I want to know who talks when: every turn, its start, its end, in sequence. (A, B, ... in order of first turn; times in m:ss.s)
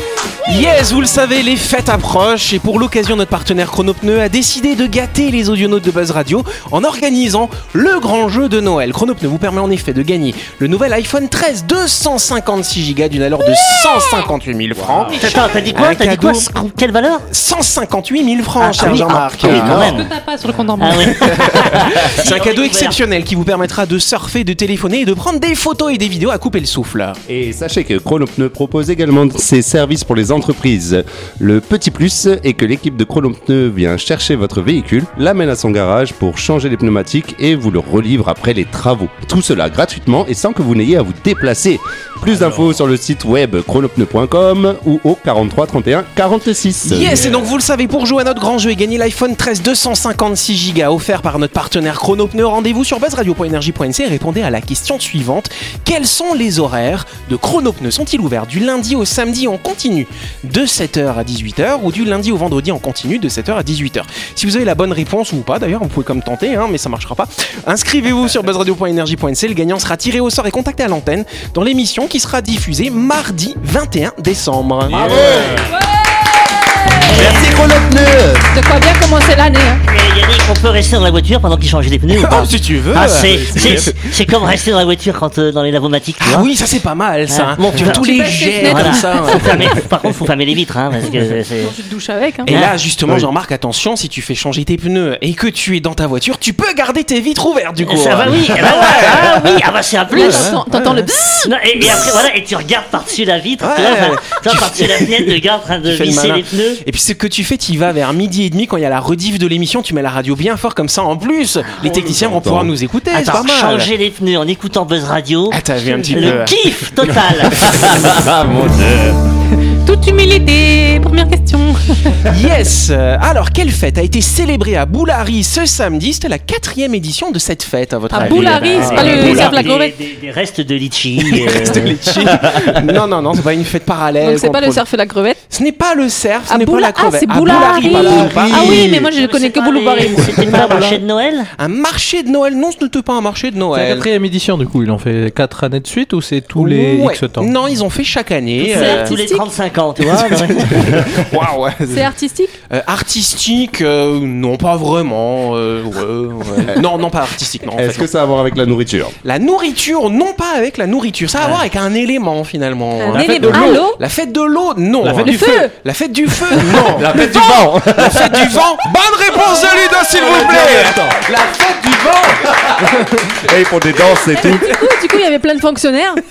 0:00.4-0:16.5 A
0:14.8-0:15.2 B
0:15.2-0:17.2 C
0:17.3-0:19.8 A
0:18.6-0:20.1 C
0:19.4-0:20.0 B
0:19.6-0:21.7 D
0:20.8-0:23.0 C
0:21.2-0:27.2 A
0:27.3-0:47.3 B
0:46.8-1:15.2 A
1:14.9-1:15.7 B
1:14.9-1:15.7 C
1:17.1-1:18.5 B
1:18.5-1:19.8 D
1:19.8-1:26.5 C
1:22.1-1:24.1 A
1:23.2-1:23.9 B
1:26.2-1:29.9 A
1:27.3-1:31.7 C
1:27.8-1:29.5 D
1:31.6-1:32.5 D
1:32.4-1:39.6 A
1:32.5-1:32.8 C
1:37.8-1:40.6 C
1:40.1-1:41.5 D
1:40.1-1:41.2 A
1:41.4-1:46.8 C
1:43.6-1:53.9 A
1:51.8-1:52.7 B
1:53.1-1:57.9 C
1:55.5-1:56.5 A
1:56.0-1:56.4 D
1:57.1-1:59.2 B
1:59.6-2:02.2 D
2:02.3-2:09.6 A
2:08.1-2:10.0 D
2:08.2-2:12.0 C
2:08.8-2:09.5 B
2:11.2-2:14.8 A
2:12.2-2:12.8 B
2:14.2-2:15.4 D
2:15.5-2:18.9 A
2:16.5-2:21.0 D
2:17.8-2:19.0 B
2:18.4-2:21.5 C
2:21.6-2:24.1 A
2:23.7-2:27.5 E
2:26.5-2:29.1 A
2:28.6-2:29.4 D
2:28.6-2:31.0 C
2:30.0-2:32.1 A
2:31.9-2:32.5 D
2:32.7-2:38.1 A
2:37.7-2:39.1 B
2:39.2-2:47.2 A
2:43.0-2:44.0 D
2:43.2-2:43.7 B
2:45.0-2:45.3 B
2:45.2-2:45.7 D
2:46.5-2:47.6 D
2:46.7-2:48.7 B
2:47.9-2:53.3 A
2:50.1-2:51.3 B
2:52.4-2:54.8 B
2:54.3-2:56.2 D